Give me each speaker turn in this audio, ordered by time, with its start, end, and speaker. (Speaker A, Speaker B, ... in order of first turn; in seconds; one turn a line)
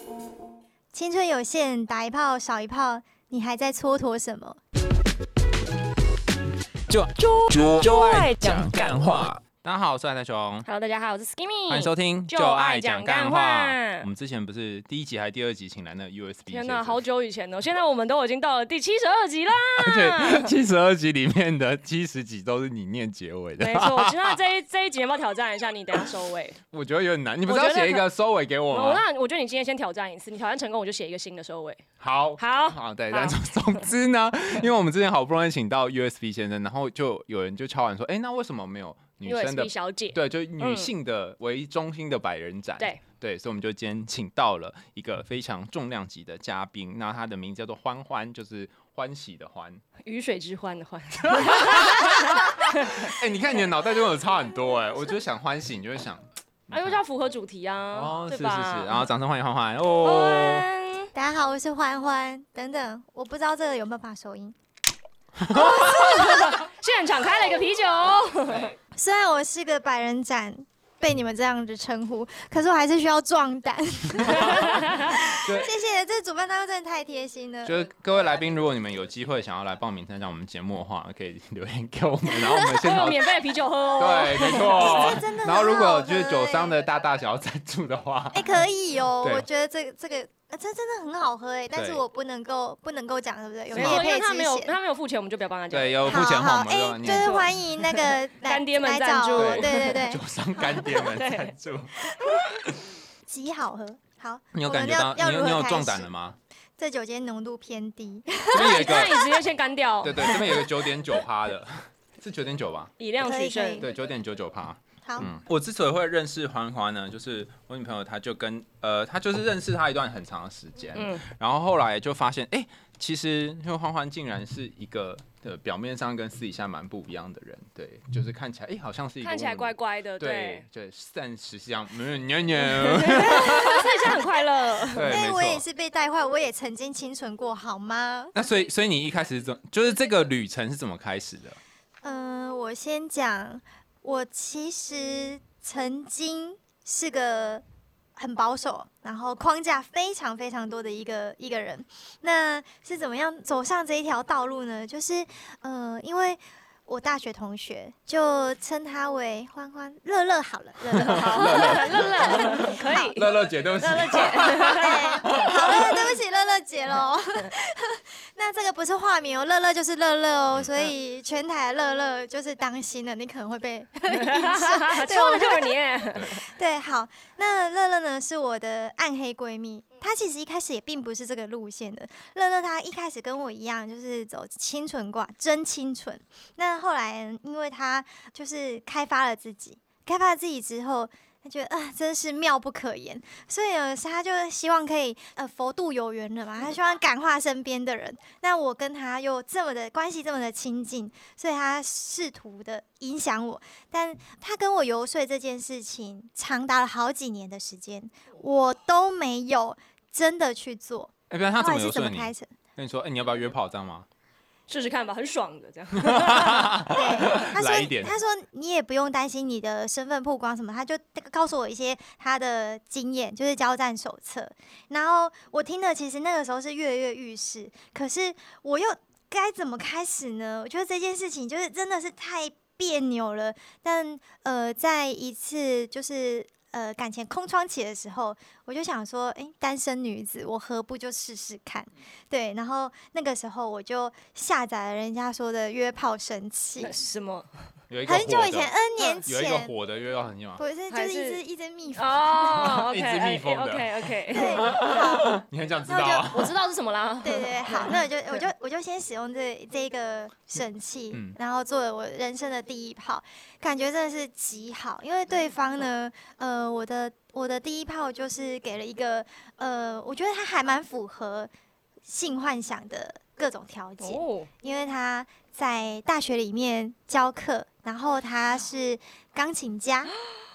Speaker A: 0.9-4.6
Speaker B: 6.9-10.7
Speaker C: 7.4-9.0
Speaker C: 10.6-14.1
Speaker B: 11.7-17.0
Speaker C: 16.5-20.5
Speaker B: 19.8-24.4
Speaker C: 23.6-26.6
Speaker B: 26.7-29.0
Speaker C: 27.5-28.0
Speaker C: 28.7-31.8
Speaker B: 32.0-49.8
Speaker C: 32.4-33.8
Speaker C: 39.2-40.9
Speaker C: 50.0-53.1
Speaker B: 51.2-57.0
Speaker C: 56.7-59.0
Speaker B: 57.9-60.7
Speaker C: 60.0-61.1
Speaker A: 61.1-64.5
Speaker B: 65.4-66.0
Speaker A: 65.5-66.6
Speaker C: 65.5-68.7
Speaker A: 68.9-77.8
Speaker B: 74.2-74.8
Speaker C: 74.4-75.2
Speaker B: 75.3-75.7
Speaker B: 77.6-83.3
Speaker C: 82.7-85.1
Speaker B: 84.0-88.6
Speaker A: 84.7-86.8
Speaker A: 88.3-94.7
Speaker B: 91.7-92.0
Speaker C: 93.7-96.0
Speaker B: 93.7-94.1
Speaker B: 95.7-97.5
Speaker A: 96.0-101.0
Speaker C: 97.1-100.0
Speaker B: 99.4-102.8
Speaker C: 101.1-101.5
Speaker A: 103.3-106.1
Speaker B: 104.5-106.3
Speaker A: 106.8-109.3
Speaker B: 108.5-109.2
Speaker C: 108.5-110.7
Speaker B: 110.0-112.9
Speaker C: 113.0-113.9
Speaker A: 113.2-113.8
Speaker B: 113.8-134.2
Speaker A: 115.0-115.3
Speaker C: 120.9-121.2
Speaker C: 129.2-130.6
Speaker C: 132.6-135.1
Speaker B: 134.8-135.6
Speaker A: 135.0-138.3
Speaker B: 138.3-141.6
Speaker A: 142.0-147.6
Speaker A: 148.2-163.1
Speaker B: 160.9-166.1
Speaker C: 161.0-165.0
Speaker A: 164.7-175.8
Speaker C: 174.1-176.4
Speaker A: 176.3-212.5
Speaker B: 211.3-214.1
Speaker C: 214.7-216.7
Speaker B: 215.9-218.1
Speaker A: 216.9-247.0
Speaker C: 246.8-247.5
Speaker B: 247.9-248.7
Speaker A: 248.1-249.7
Speaker B: 249.2-250.6
Speaker A: 250.6-252.4
Speaker C: 250.9-251.4
Speaker C: 251.9-254.8
Speaker B: 252.4-256.6
Speaker A: 254.3-256.3
Speaker C: 256.3-258.4
Speaker A: 257.2-271.5
Speaker A: 272.0-280.1
Speaker C: 274.0-274.5